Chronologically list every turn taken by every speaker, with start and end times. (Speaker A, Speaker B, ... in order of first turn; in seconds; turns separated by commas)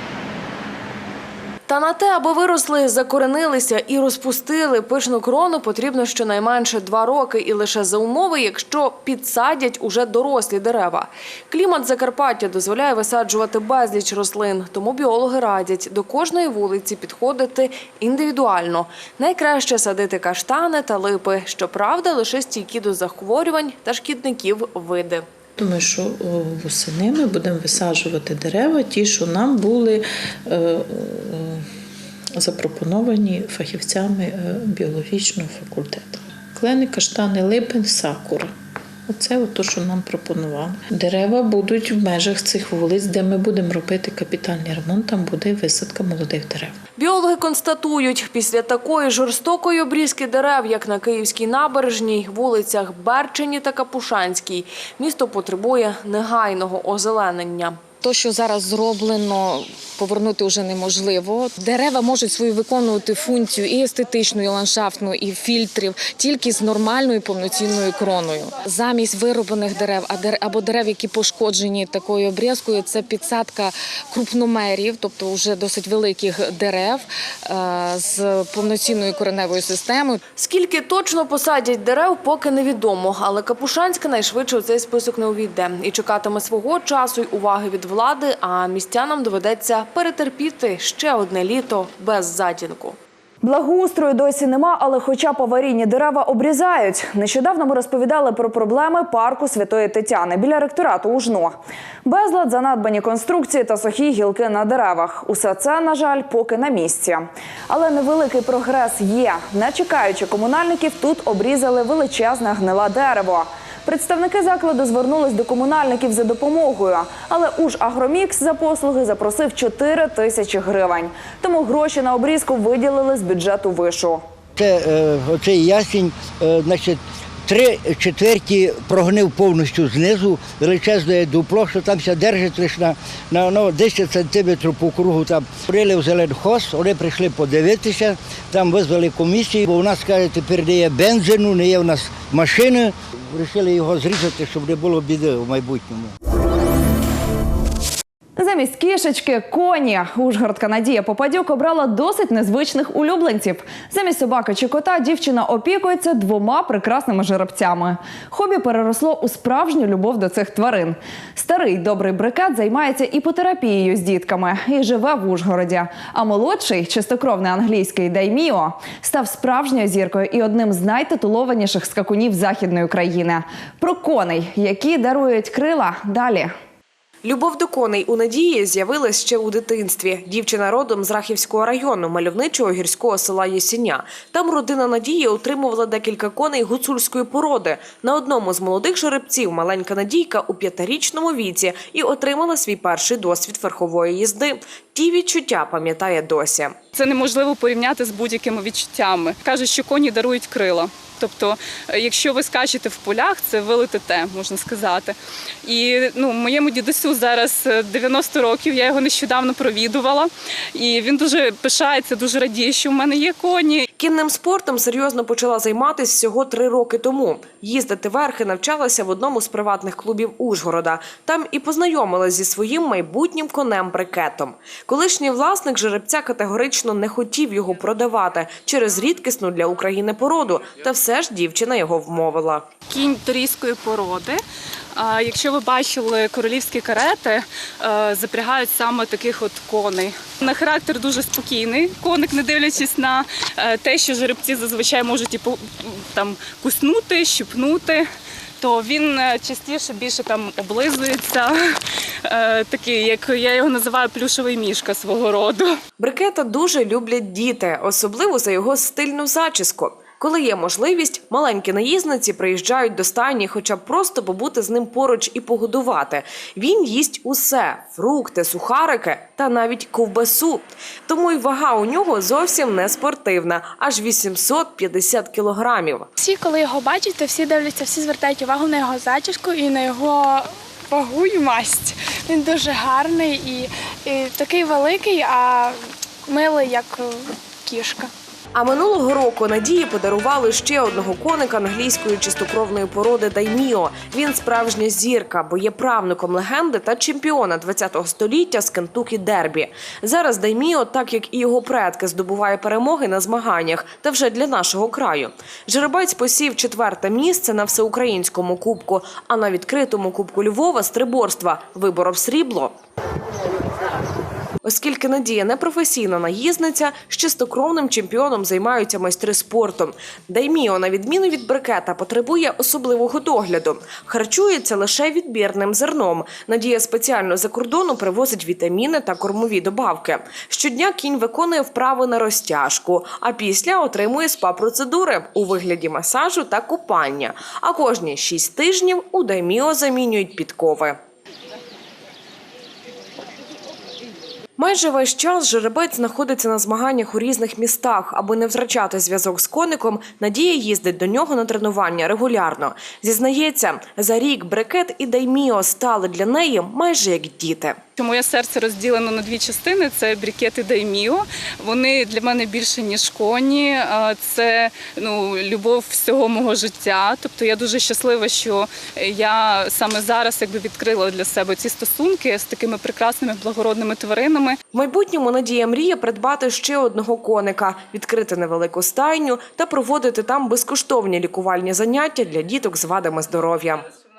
Speaker A: 1.7-25.2, Speaker B: 25.6-31.7, Speaker B: 32.4-38.5, Speaker B: 39.1-46.8, Speaker A: 47.0-57.9, Speaker C: 58.0-80.2, Speaker A: 80.4-93.0, Speaker D: 93.4-124.2, Speaker E: 124.6-146.1, Speaker D: 148.4-176.5, Speaker A: 177.2-196.8, Speaker F: 196.9-213.9, Speaker A: 214.0-232.7, Speaker F: 232.9-234.4, Speaker F: 235.0-248.1, Speaker F: 248.6-251.6, Speaker F: 252.3-255.8, Speaker A: 256.0-276.1, Speaker G: 276.2-288.1, Speaker A: 288.6-312.8, Speaker A: 314.6-341.0, Speaker A: 344.6-357.8, Speaker F: 358.0-374.6, Speaker A: 374.7-383.9